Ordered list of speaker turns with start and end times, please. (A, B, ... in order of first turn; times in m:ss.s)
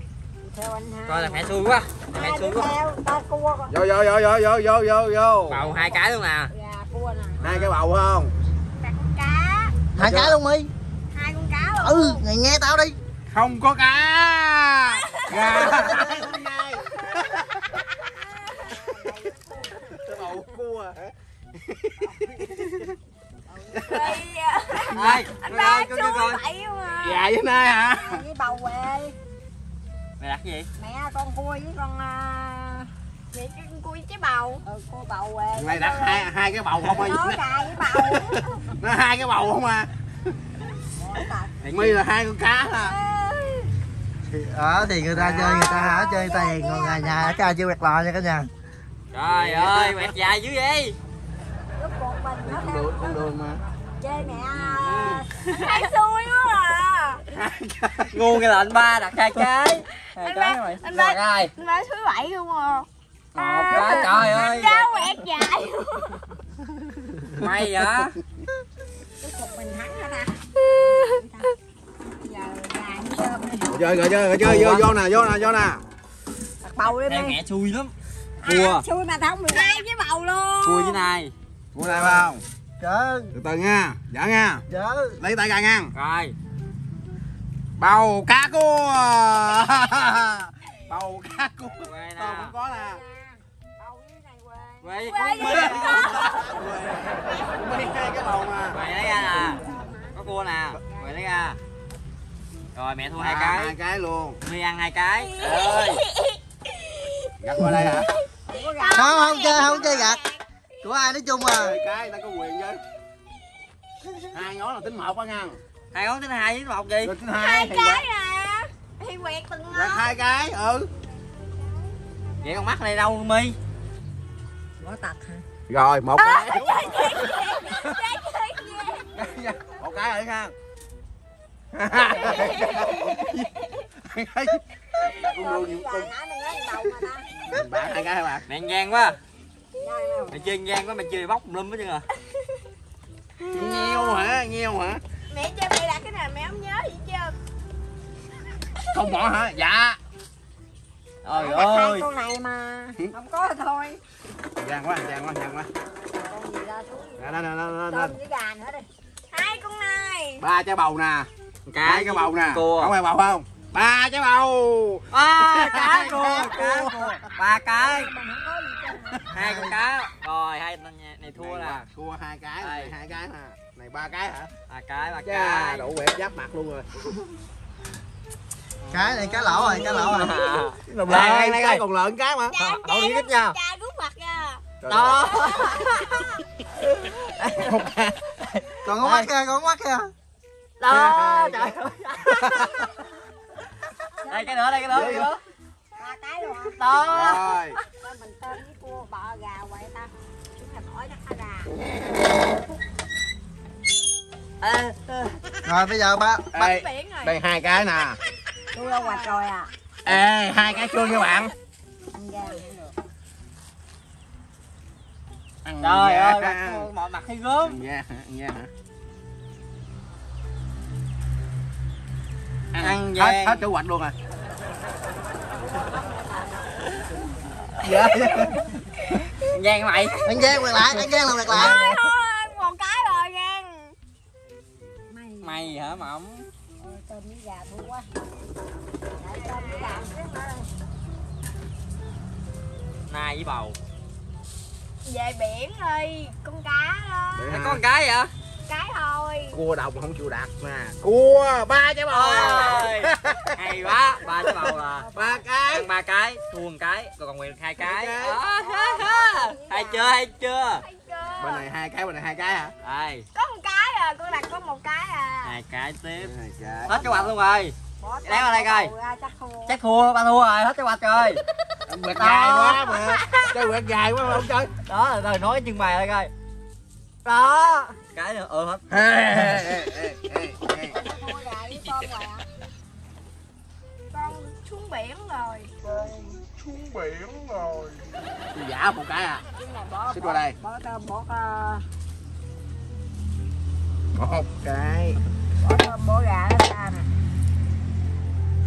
0:00.4-0:01.6 A
0:01.1-0:02.8 B
0:02.1-0:03.8 A
0:03.7-0:05.6 C
0:05.5-0:06.5 B
0:05.6-0:07.6 A
0:07.4-0:08.3 C
0:08.8-0:09.8 D
0:09.9-0:10.4 C
0:10.0-0:10.7 E
0:11.1-0:12.2 D
0:11.8-0:13.0 E
0:13.3-0:17.6 C
0:14.9-0:15.8 D
0:18.0-0:20.4 A
0:19.8-0:22.9 C
0:22.0-0:22.8 A
0:23.5-0:24.2 A
0:23.9-0:27.3 D
0:24.9-0:26.4 B
0:25.0-0:25.3 C
0:27.0-0:28.2 C
0:27.9-0:29.2 A
0:30.2-0:30.7 B
0:30.8-0:32.9 A
0:33.3-0:34.6 D
0:34.6-0:36.3 A
0:35.6-0:37.4 C
0:36.8-0:38.7 A
0:37.9-0:40.3 C
0:40.9-0:41.5 A
0:41.6-0:42.0 B
0:41.7-0:43.0 C
0:42.7-0:43.7 A
0:44.3-0:48.5 E
0:45.1-0:45.8 C
0:45.4-0:47.5 A
0:49.1-0:51.0 B
0:49.3-0:50.1 C
0:51.8-0:53.3 A
0:52.4-0:53.6 C
0:54.0-0:55.3 A
0:54.5-0:55.8 B
0:55.5-0:57.2 D
0:57.3-0:58.2 C
0:58.1-1:01.5 B
1:00.0-1:02.9 D
1:03.4-1:04.9 B
1:03.4-1:06.3 D
1:03.4-1:04.4 C
1:07.3-1:08.2 B
1:09.2-1:11.5 A
1:10.6-1:11.2 D
1:12.2-1:13.8 A
1:13.7-1:15.8 C
1:14.4-1:15.0 B
1:16.6-1:17.4 A
1:16.8-1:18.8 B
1:18.4-1:21.0 A
1:19.5-1:20.5 D
1:20.6-1:21.3 B
1:21.7-1:22.4 C
1:21.9-1:23.3 E
1:23.3-1:24.6 C
1:24.7-1:25.2 E
1:25.2-1:25.9 C
1:25.9-1:26.3 B
1:27.8-1:33.0 C
1:31.8-1:32.6 B
1:32.8-1:37.0 A
1:34.8-1:36.1 B
1:35.0-1:36.4 D
1:35.4-1:38.8 C
1:37.2-1:37.6 D
1:38.7-1:39.6 B
1:38.8-1:40.2 A
1:40.1-1:41.6 B
1:40.9-1:41.2 A
1:42.8-1:43.8 B
1:43.2-1:44.4 C
1:44.4-1:46.0 B
1:45.2-1:47.4 D
1:47.4-1:48.1 C
1:47.7-1:47.9 E
1:48.0-1:50.4 D
1:48.5-1:49.3 A
1:48.9-1:50.2 E
1:50.8-1:51.8 E
1:51.5-1:52.8 C
1:54.3-1:55.6 C
1:55.9-1:57.2 B
1:57.0-1:58.1 C
1:57.3-2:00.3 D
1:59.7-2:00.9 C
2:01.0-2:02.7 D
2:02.4-2:03.6 B
2:04.8-2:05.4 A
2:05.7-2:08.0 C
2:06.2-2:09.1 D
2:09.2-2:10.5 C
2:11.7-2:16.1 C
2:12.3-2:13.8 D
2:15.0-2:17.3 A
2:17.5-2:18.4 C
2:18.5-2:19.2 B
2:19.8-2:20.4 A
2:20.3-2:22.1 B
2:22.3-2:22.6 D
2:23.4-2:24.4 D
2:23.5-2:25.0 C
2:25.3-2:27.4 D
2:28.9-2:30.0 C
2:31.2-2:32.1 B
2:31.3-2:34.0 A
2:34.6-2:35.7 C
2:36.0-2:38.9 A
2:37.2-2:38.2 C
2:39.3-2:40.5 D
2:40.4-2:41.3 C
2:41.7-2:42.9 B
2:41.8-2:47.2 C
2:45.1-2:48.1 B
2:47.8-2:49.3 A
2:49.3-2:49.8 E
2:49.3-2:51.8 B
2:51.3-2:54.5 C
2:52.6-2:52.9 B
2:54.7-2:55.9 B
2:55.2-2:57.0 C
2:58.9-3:01.8 B
2:58.9-3:00.4 E
3:00.8-3:02.6 C
3:02.5-3:04.8 D
3:02.6-3:03.6 B
3:04.8-3:05.3 C
3:04.9-3:09.3 B
3:05.4-3:06.3 D
3:07.6-3:08.2 C
3:08.8-3:10.1 E
3:10.8-3:12.8 B
3:10.9-3:11.8 C
3:12.4-3:12.7 C
3:14.2-3:15.0 A
3:14.3-3:15.4 B
3:14.9-3:15.3 C
3:16.0-3:16.8 A
3:16.8-3:17.8 B
3:17.1-3:17.8 C
3:17.9-3:21.7 A
3:24.6-3:25.4 B
3:25.6-3:26.5 E
3:26.5-3:28.2 C
3:26.6-3:27.4 D
3:28.7-3:29.7 A
3:28.8-3:29.4 D
3:30.0-3:31.5 C
3:32.1-3:32.9 A
3:35.6-3:36.9 C
3:35.8-3:37.8 B
3:37.6-3:38.7 C
3:42.7-3:44.2 C
3:42.8-3:43.7 B
3:45.4-3:47.3 A
3:47.8-3:48.7 C
3:49.4-3:50.7 B
3:50.3-3:51.8 E
3:51.0-3:54.0 D
3:51.5-3:52.0 C
3:55.1-3:56.0 A
3:55.4-3:56.5 B
3:56.8-3:58.1 A
3:59.2-4:00.7 A
3:59.3-4:00.0 D
4:03.1-4:03.8 B
4:05.0-4:07.5 D
4:07.3-4:07.8 C
4:07.5-4:08.3 B
4:08.6-4:09.6 D
4:09.5-4:13.5 C
4:12.1-4:15.1 B
4:14.5-4:15.8 C
4:14.8-4:15.5 A
4:15.7-4:20.8 B
4:17.8-4:18.4 C
4:18.3-4:20.2 A
4:20.8-4:21.7 D
4:21.4-4:22.7 C
4:22.8-4:23.3 B
4:23.3-4:25.6 D
4:25.4-4:26.3 B
4:26.2-4:27.3 C
4:26.8-4:28.9 B
4:28.0-4:29.8 A
4:29.7-4:31.4 B
4:31.9-4:34.7 C
4:32.2-4:32.8 B
4:32.8-4:33.7 D
4:34.8-4:36.3 B
4:37.2-4:38.9 B
4:38.9-4:41.0 C
4:40.9-4:42.4 A
4:44.1-4:45.8 D
4:46.0-4:48.0 C
4:48.5-4:49.4 C
4:49.6-4:51.8 A
4:50.1-4:50.6 C
4:54.2-4:55.2 C
4:55.6-4:57.1 A